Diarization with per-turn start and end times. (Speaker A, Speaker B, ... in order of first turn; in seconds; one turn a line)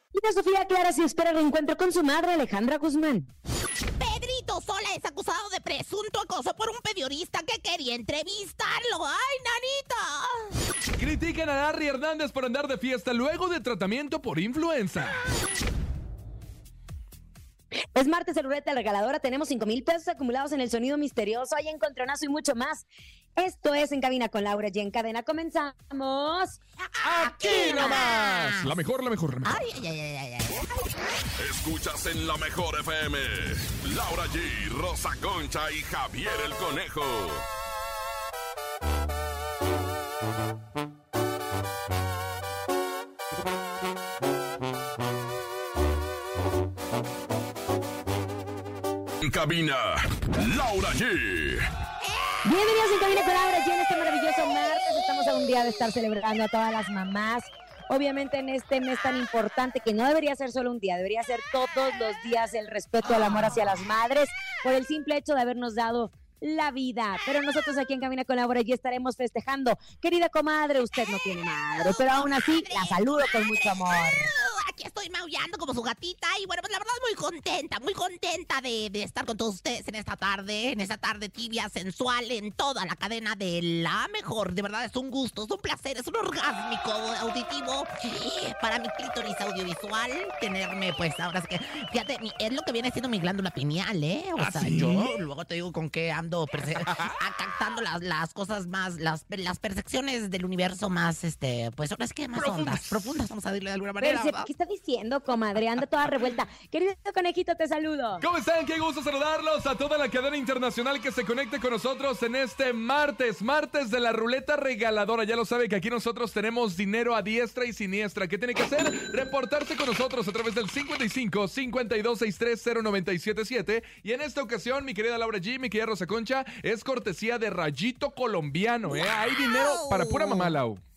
Speaker A: 0.1-3.3
Speaker B: 4.0-10.5
Speaker C: 11.0-15.2
Speaker A: 17.9-22.8
Speaker A: 23.4-26.6
Speaker B: 26.8-28.7
Speaker C: 27.0-29.6
Speaker B: 29.4-30.7
Speaker D: 31.4-37.4
Speaker D: 49.2-51.6
Speaker A: 52.4-74.3
Speaker B: 71.5-104.5
Speaker C: 94.4-95.1
Speaker C: 96.9-97.2
Speaker C: 102.3-103.2
Speaker A: 104.0-108.2
Speaker C: 108.2-130.8
Speaker B: 128.9-130.5